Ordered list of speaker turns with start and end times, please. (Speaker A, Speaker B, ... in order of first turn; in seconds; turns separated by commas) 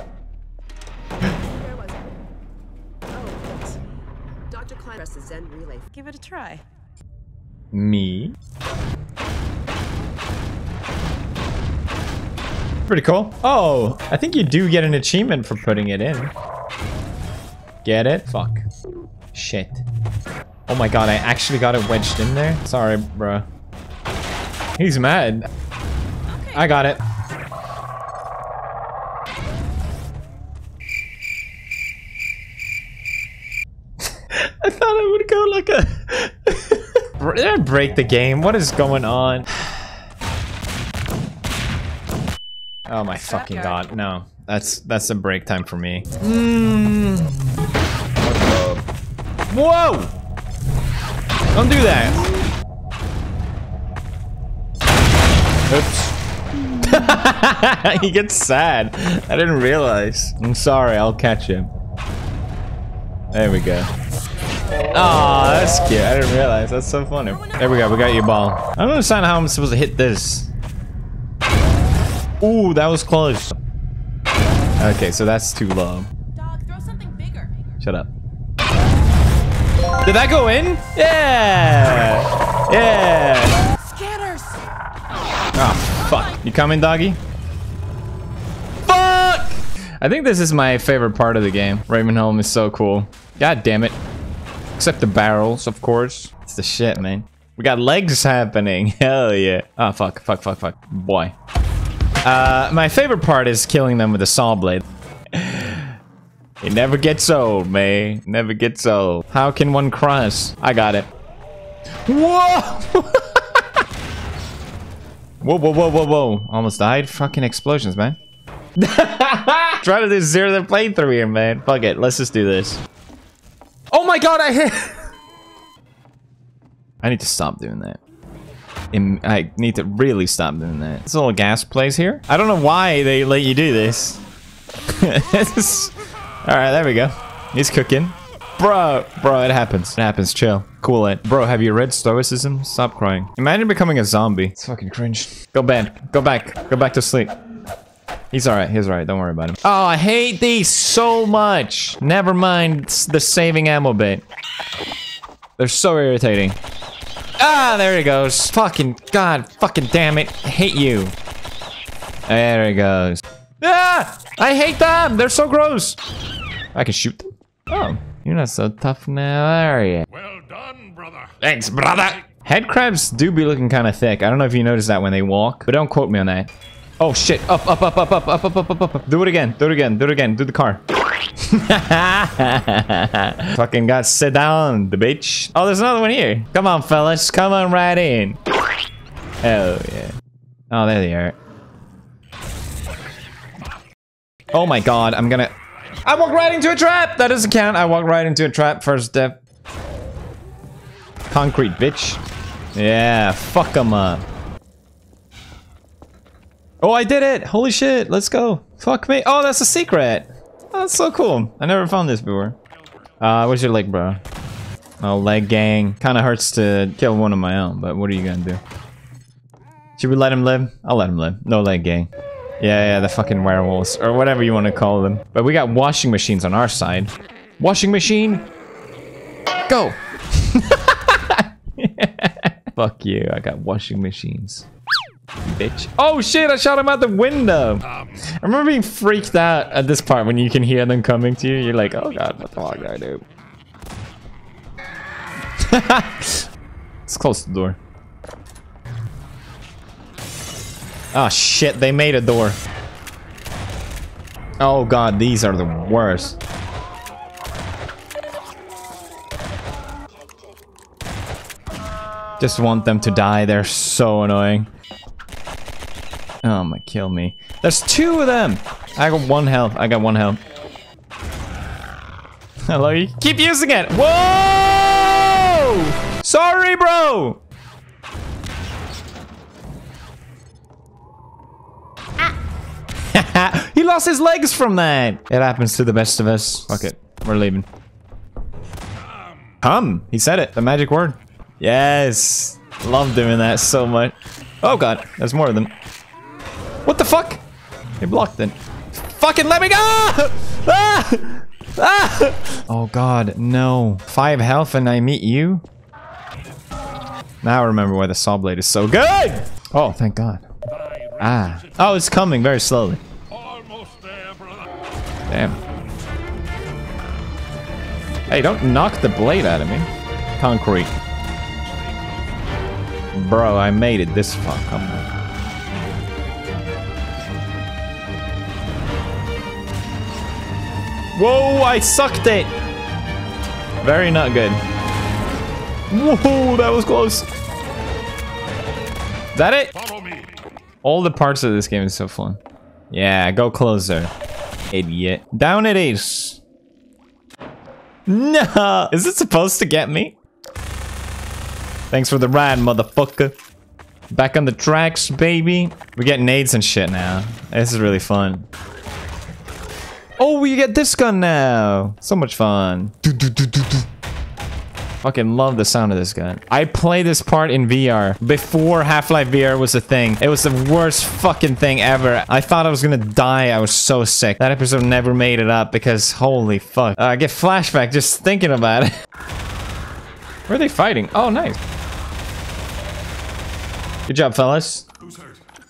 Speaker A: 1.3-2.1, Speaker A: 3.1-3.8, Speaker A: 4.5-6.6, Speaker B: 7.7-8.3, Speaker B: 12.9-16.3, Speaker B: 17.8-18.6, Speaker B: 19.3-19.8, Speaker B: 20.7-23.5, Speaker B: 24.8-25.5, Speaker C: 26.3-26.6, Speaker B: 26.5-27.0, Speaker B: 34.3-39.9, Speaker B: 42.9-47.4, Speaker C: 43.3-43.8, Speaker B: 48.3-48.8, Speaker B: 49.5-50.1, Speaker B: 51.5-52.3, Speaker B: 55.7-56.1, Speaker B: 56.8-61.7, Speaker B: 63.3-63.9, Speaker B: 64.9-70.5, Speaker C: 67.4-67.7, Speaker B: 72.4-73.6, Speaker B: 74.8-76.1, Speaker C: 76.3-77.6, Speaker B: 77.8-78.1, Speaker B: 80.0-83.6, Speaker C: 83.8-84.6, Speaker B: 85.6-87.2, Speaker C: 85.9-86.4, Speaker B: 88.8-94.0, Speaker B: 94.8-101.3, Speaker B: 102.2-106.0, Speaker B: 106.6-111.1, Speaker B: 112.1-113.6, Speaker B: 115.4-118.2, Speaker B: 118.8-122.8, Speaker B: 123.9-125.1, Speaker B: 127.0-128.0, Speaker B: 128.9-134.2, Speaker B: 134.9-135.9, Speaker B: 136.4-147.3, Speaker B: 148.3-154.2, Speaker B: 155.6-156.6, Speaker B: 157.4-161.2, Speaker B: 162.3-166.0, Speaker B: 166.7-170.1, Speaker D: 170.1-171.3, Speaker B: 171.4-176.5, Speaker B: 177.0-180.8, Speaker B: 181.4-188.4, Speaker B: 189.4-190.1, Speaker B: 190.7-191.4, Speaker B: 194.5-195.5, Speaker B: 196.1-199.4, Speaker B: 201.3-202.2, Speaker B: 202.8-204.3, Speaker B: 206.8-212.6, Speaker B: 213.2-214.2, Speaker B: 215.0-218.6, Speaker B: 220.0-222.1, Speaker B: 222.6-228.4, Speaker B: 229.7-234.7, Speaker B: 235.4-237.8, Speaker B: 238.4-243.2, Speaker B: 245.6-246.5, Speaker B: 247.1-247.8, Speaker B: 251.1-252.6, Speaker B: 254.6-256.4, Speaker B: 262.4-264.7, Speaker B: 266.4-270.4, Speaker B: 272.7-277.4, Speaker B: 283.1-287.7, Speaker B: 289.6-295.7, Speaker B: 296.9-297.4, Speaker B: 298.0-305.6, Speaker B: 307.4-310.5, Speaker D: 310.7-312.0, Speaker B: 311.2-313.0, Speaker D: 313.3-314.7, Speaker B: 315.3-315.6, Speaker B: 318.3-320.9, Speaker B: 323.1-325.1, Speaker B: 331.1-332.5, Speaker B: 333.8-334.6, Speaker B: 335.9-337.3, Speaker B: 339.4-339.7, Speaker D: 339.8-340.4, Speaker B: 340.8-342.4, Speaker B: 342.9-344.1, Speaker B: 344.7-346.4, Speaker B: 348.1-350.2, Speaker B: 351.9-353.4, Speaker B: 354.1-358.5, Speaker B: 360.2-363.9, Speaker B: 365.0-378.9, Speaker B: 380.5-381.6, Speaker B: 384.1-384.9, Speaker D: 385.0-385.4